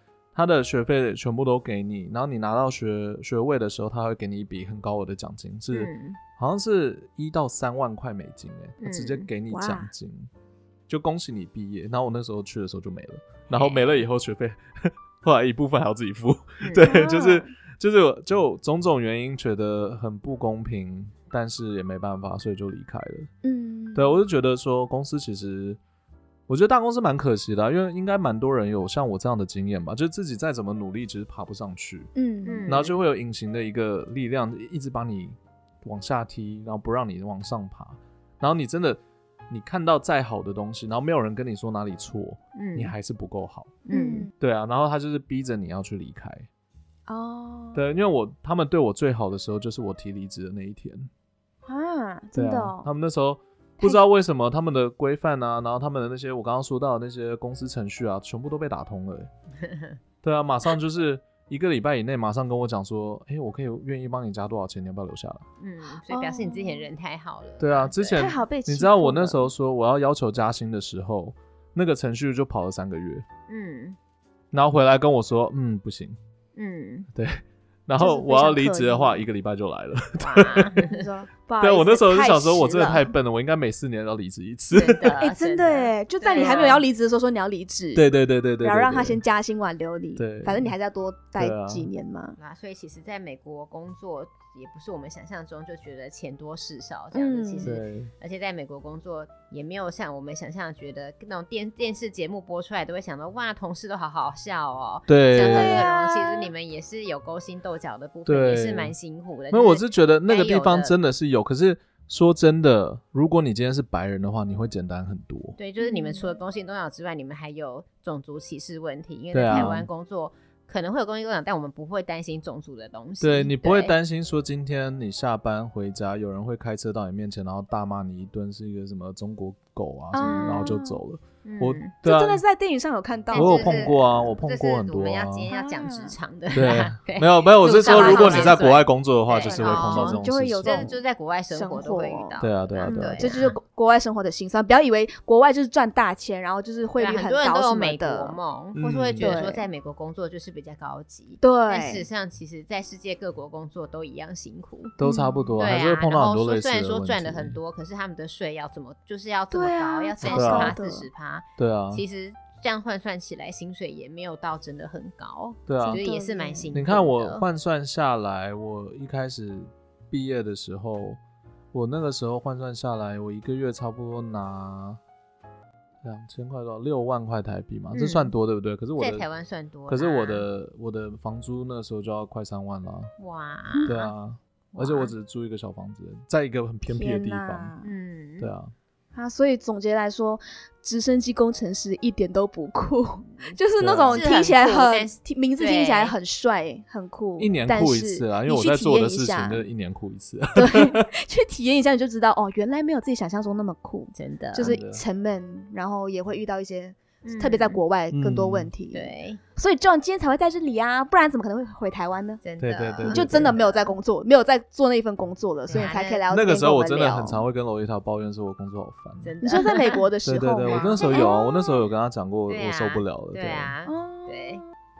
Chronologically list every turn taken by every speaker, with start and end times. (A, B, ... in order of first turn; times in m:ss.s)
0:00.3-0:10.3 A
0:05.7-0:06.2 B
0:08.8-0:09.3 B
0:09.5-0:09.9 C
0:10.9-0:23.3 A
0:13.5-0:14.0 B
0:16.6-0:16.9 B
0:16.8-0:17.5 C
0:23.4-0:24.2 C
0:23.9-0:25.8 A
0:26.5-0:32.1 A
0:32.1-0:32.7 C
0:32.4-0:33.0 B
0:32.7-0:43.8 A
0:42.5-0:42.9 B
0:43.8-0:44.3 B
0:43.9-0:44.3 C
0:44.4-0:46.5 A
0:47.1-0:47.8 C
0:47.7-0:51.1 A
0:51.6-0:52.9 C
0:52.3-0:59.3 A
0:59.6-1:00.0 B
1:00.2-1:05.4 A
1:05.6-1:08.2 B
1:06.1-1:06.9 C
1:07.6-1:13.2 A
1:08.1-1:09.5 C
1:13.5-1:14.0 B
1:14.5-1:16.2 A
1:16.6-1:17.1 B
1:17.1-1:20.8 A
1:18.0-1:19.2 C
1:20.2-1:21.1 B
1:20.8-1:23.1 C
1:21.6-1:25.1 A
1:24.7-1:26.8 B
1:25.2-1:28.0 C
1:27.9-1:29.2 A
1:28.6-1:32.4 C
1:30.2-1:30.7 A
1:31.4-1:31.9 A
1:32.4-1:51.0 B
1:37.1-1:37.7 C
1:37.6-1:38.1 A
1:45.1-1:45.8 A
1:45.4-1:46.5 C
1:48.2-1:48.9 A
1:49.5-1:55.6 A
1:55.6-2:03.9 B
1:55.8-1:56.3 C
1:59.3-1:59.9 A
2:03.2-2:12.4 A
2:10.1-2:11.0 C
2:10.2-2:10.7 B
2:11.4-2:11.9 B
2:12.0-2:13.9 C
2:13.3-2:23.6 B
2:13.3-2:15.4 A
2:15.5-2:16.1 C
2:16.5-2:20.9 A
2:17.8-2:18.6 C
2:19.4-2:21.0 C
2:21.5-2:28.4 C
2:22.4-2:23.4 A
2:27.0-2:34.9 B
2:28.7-2:29.4 A
2:29.2-2:29.6 C
2:31.4-2:32.0 C
2:35.0-2:37.6 A
2:35.0-2:35.6 C
2:35.6-2:47.4 B
2:39.5-2:41.1 C
2:40.2-2:40.8 A
2:41.6-2:42.0 A
2:45.7-2:46.0 A
2:45.8-2:46.7 C
2:46.7-2:51.2 A
2:51.7-2:55.0 A
2:56.0-2:59.2 A
2:57.9-2:58.3 B
2:59.0-3:00.5 B
2:59.9-3:03.1 A
3:03.2-3:04.0 B
3:03.7-3:04.1 C
3:03.9-3:07.7 A
3:04.7-3:05.1 B
3:06.9-3:07.9 C
3:07.8-3:08.5 B
3:08.4-3:08.7 A
3:09.1-3:19.6 C
3:13.3-3:13.6 B
3:13.8-3:14.2 A
3:14.1-3:16.2 B
3:17.4-3:21.1 A
3:20.5-3:32.4 C
3:24.1-3:24.8 B
3:24.6-3:25.0 A
3:27.2-3:27.8 B
3:28.1-3:28.7 A
3:28.9-3:29.4 B
3:32.4-3:33.9 B
3:32.6-3:33.6 A
3:33.0-3:37.4 C
3:35.7-3:36.2 B
3:35.8-3:39.3 A
3:39.2-3:40.0 B
3:39.4-3:41.8 C
3:40.2-3:43.7 A
3:40.6-3:41.4 B
3:42.5-3:44.6 B
3:43.8-3:44.6 C